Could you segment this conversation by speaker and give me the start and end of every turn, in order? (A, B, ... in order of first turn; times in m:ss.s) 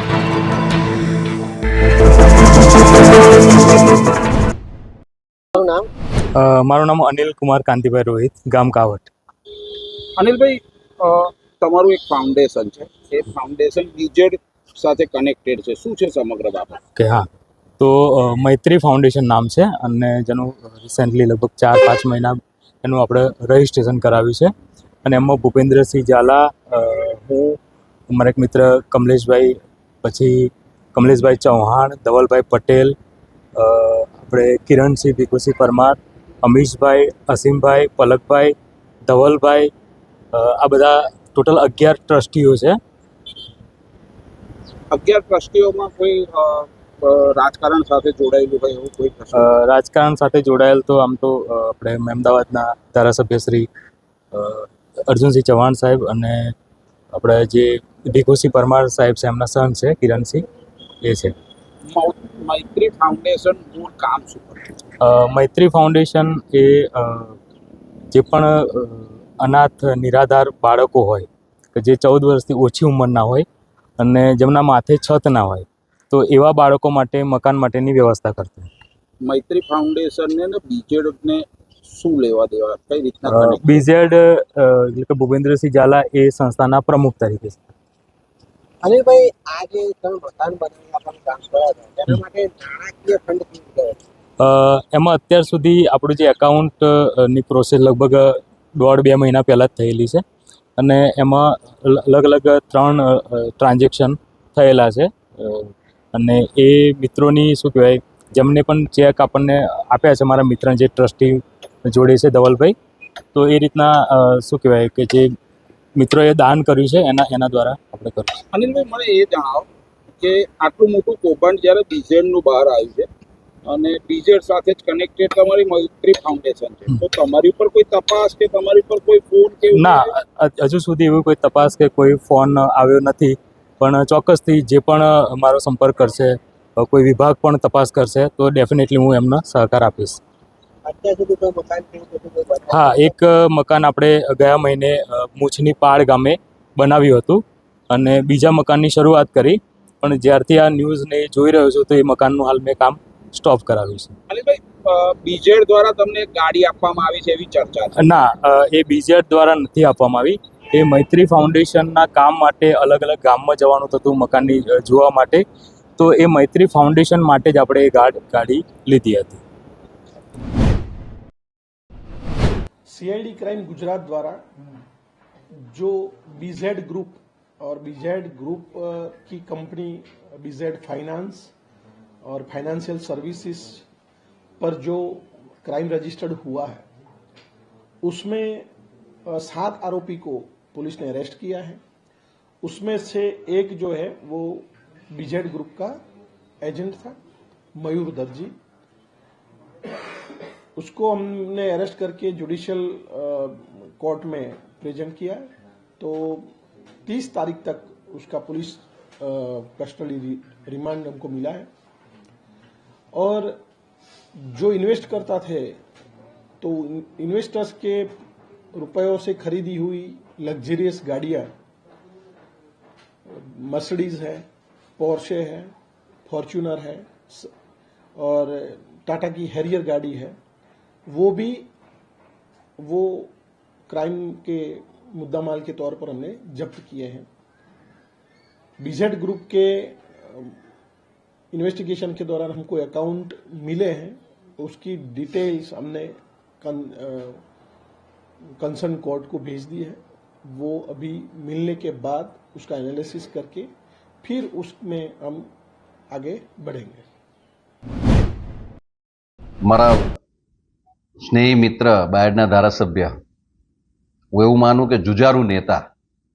0:05.6-0:05.9 A
0:06.3-0:09.1 B
0:10.2-0:16.8 C
0:17.0-0:17.3 B
0:17.8-0:24.5 B
0:25.0-0:27.6 B
0:28.1-0:32.9 B
0:33.6-0:38.5 B
0:39.0-0:39.7 B
0:40.3-0:42.8 B
0:44.9-0:49.5 C
0:49.3-0:53.7 B
0:54.3-0:56.5 B
0:57.1-1:00.4 B
1:01.0-1:01.3 B
1:01.9-1:04.6 C
1:05.0-1:07.4 B
1:08.1-1:13.4 B
1:14.0-1:18.7 B
1:19.2-1:23.8 C
1:23.3-1:27.7 B
1:28.8-1:33.9 A
1:34.4-1:40.2 B
1:40.8-1:52.8 B
1:53.3-1:55.3 B
1:56.0-1:58.4 B
1:58.5-1:59.7 C
2:00.2-2:03.1 C
2:03.6-2:10.0 C
2:09.7-2:20.2 B
2:20.8-2:23.1 A
2:22.7-2:34.1 B
2:34.3-2:38.0 C
2:38.0-2:45.4 B
2:46.0-2:49.4 B
2:52.9-2:54.4 D
2:55.7-3:01.5 D
3:02.2-3:03.8 D
3:04.6-3:06.8 D
3:08.0-3:08.7 D
3:09.3-3:11.8 D
3:12.6-3:16.0 D
3:16.6-3:17.2 D
3:17.8-3:18.5 D
3:20.8-3:26.5 D
3:27.0-3:31.7 D
3:33.1-3:33.6 D
3:34.5-3:35.8 D
3:36.6-3:38.1 D
3:38.7-3:41.5 D
3:43.4-3:44.4 D
3:45.0-3:45.7 D
3:46.2-3:47.5 D
3:48.2-3:50.4 D
3:51.1-3:51.7 D
3:52.8-3:53.3 D
3:53.9-3:57.3 D
3:58.8-4:00.6 D
4:01.5-4:07.4 D
4:08.6-4:13.7 D
4:14.2-4:15.5 D
4:16.1-4:17.0 D
4:19.6-4:20.1 E
4:21.2-4:23.1 E
4:24.3-4:25.8 E